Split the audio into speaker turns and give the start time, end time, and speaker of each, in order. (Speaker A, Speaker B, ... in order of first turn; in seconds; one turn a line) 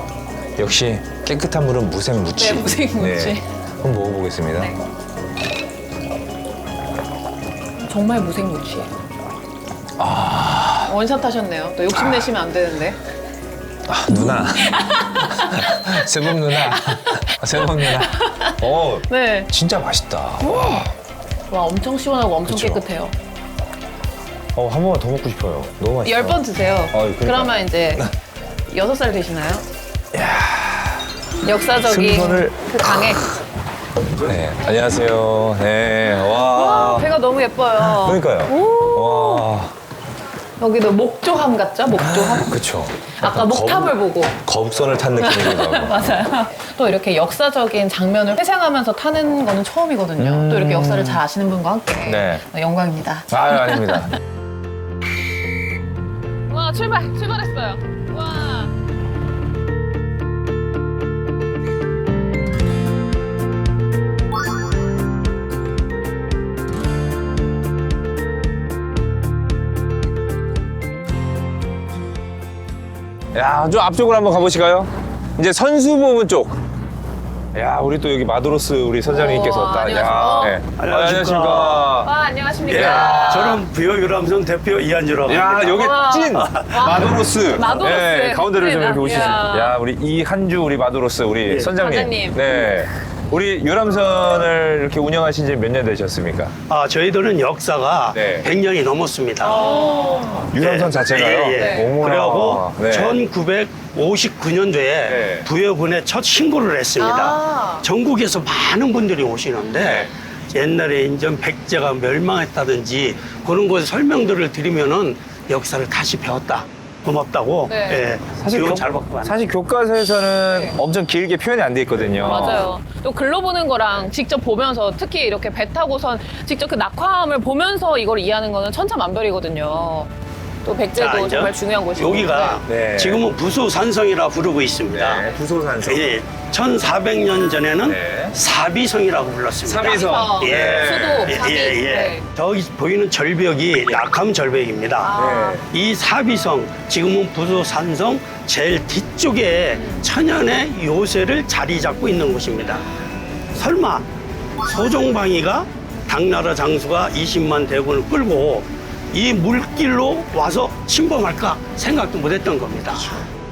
Speaker A: 0.6-4.7
Speaker B: 2.3-3.4
Speaker B: 7.8-8.9
Speaker A: 10.0-10.9
Speaker B: 10.8-13.0
Speaker A: 11.9-12.3
Speaker A: 13.9-20.9
Speaker B: 14.1-19.5
Speaker B: 20.4-20.9
Speaker B: 21.5-23.1
Speaker A: 22.4-22.8
Speaker A: 24.5-28.1
Speaker B: 26.0-28.1
Speaker B: 28.7-29.6
Speaker A: 30.1-31.1
Speaker B: 31.4-33.2
Speaker A: 31.8-32.6
Speaker A: 34.2-37.1
Speaker B: 36.3-39.5
Speaker A: 37.8-39.7
Speaker B: 40.6-44.4
Speaker A: 42.0-46.2
Speaker B: 45.1-54.1
Speaker A: 50.2-51.2
Speaker A: 52.0-52.4
Speaker A: 53.3-54.1
Speaker B: 56.5-58.7
Speaker A: 73.3-76.6
Speaker A: 77.5-82.1
Speaker B: 79.0-80.6
Speaker C: 80.7-82.0
Speaker B: 81.9-83.6
Speaker A: 82.6-83.6
Speaker C: 82.6-85.8
Speaker A: 85.2-96.5
Speaker B: 85.5-89.8
Speaker C: 86.3-86.7
Speaker C: 91.5-91.7
Speaker B: 91.8-92.7
Speaker C: 96.7-99.8
Speaker A: 98.1-98.5
Speaker B: 99.4-100.5
Speaker A: 99.9-103.2
Speaker C: 100.5-119.4
Speaker B: 101.5-101.9
Speaker A: 105.1-105.5
Speaker B: 107.0-107.8
Speaker A: 109.8-110.1
Speaker B: 117.7-118.1
Speaker A: 118.4-122.7
Speaker B: 120.5-120.8
Speaker C: 122.0-122.3
Speaker B: 122.2-130.1
Speaker B: 130.6-132.6
Speaker C: 130.9-152.8
Speaker A: 132.7-133.2
Speaker A: 134.9-136.1
Speaker A: 137.8-138.4
Speaker A: 139.7-141.4
Speaker B: 139.9-142.2
Speaker B: 145.0-145.6
Speaker A: 145.2-145.6
Speaker B: 149.7-150.1
Speaker C: 153.5-154.1
Speaker C: 154.6-163.1